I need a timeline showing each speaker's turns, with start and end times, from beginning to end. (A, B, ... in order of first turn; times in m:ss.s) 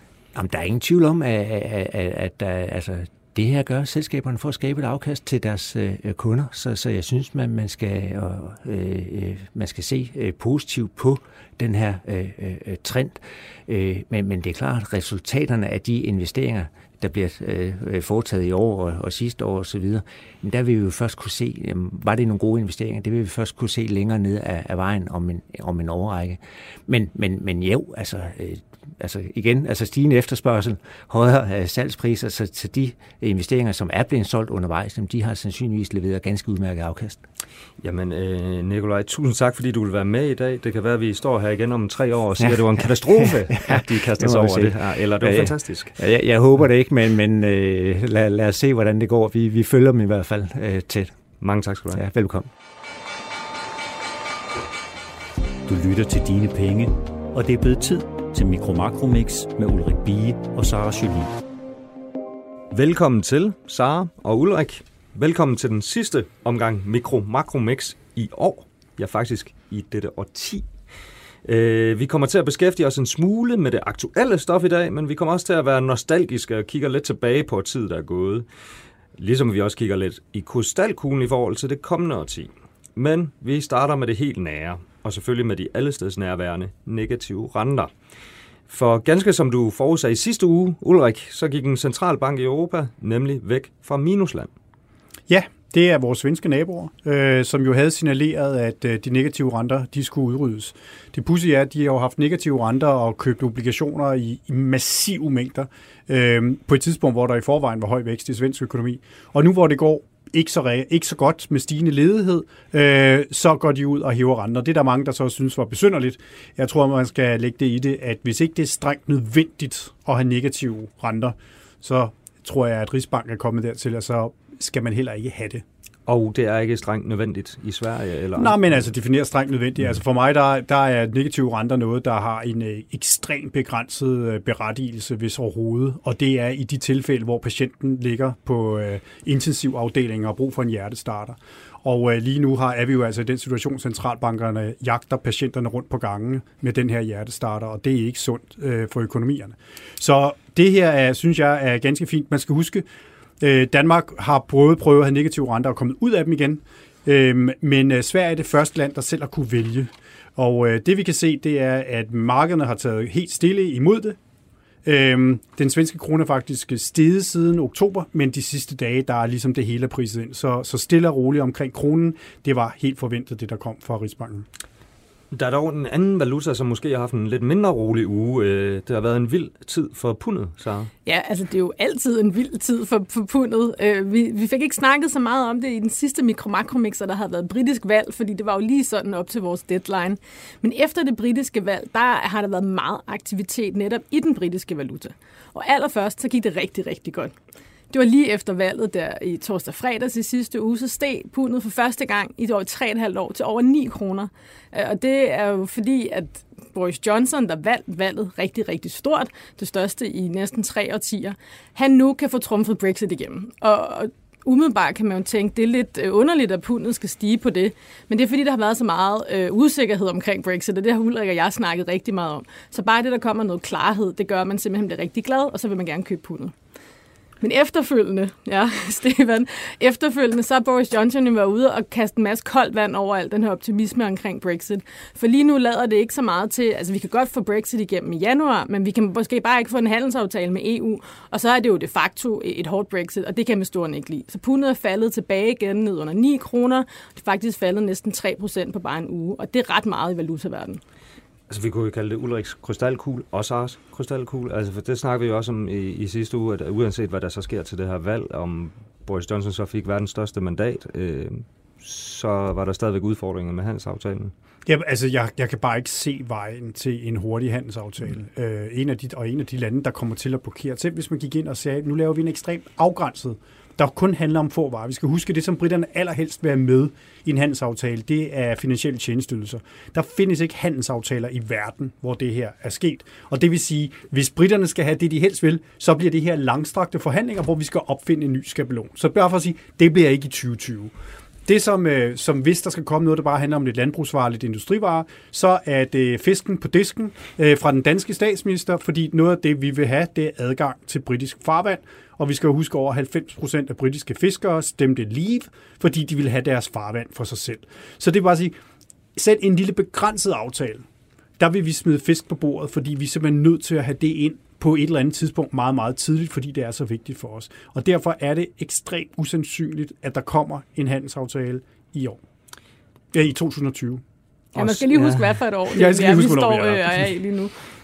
0:00.4-0:37.2 A
0:37.8-0:46.0 B
0:42.4-0:51.1 A
0:51.4-0:52.0 B
0:51.9-0:52.5 A
0:55.7-1:01.3 C
1:02.7-1:10.7 B
1:11.4-1:18.5 B
1:19.2-1:27.9 B
1:28.7-1:34.5 B
1:35.3-2:05.6 D
2:06.1-2:08.8 B
2:08.4-2:32.8 D
2:33.4-2:44.2 D
2:44.8-2:54.5 D
2:55.3-3:00.9 B
3:01.1-3:17.3 E
3:17.9-3:46.5 E
3:47.4-4:10.8 E
4:11.5-4:24.3 B
4:24.7-4:50.9 D
4:51.5-5:08.6 D
5:09.2-5:10.8 D
5:11.4-5:22.2 D
5:23.1-5:24.0 D
5:24.5-5:27.5 E
5:24.6-5:25.3 B
5:25.7-5:27.1 D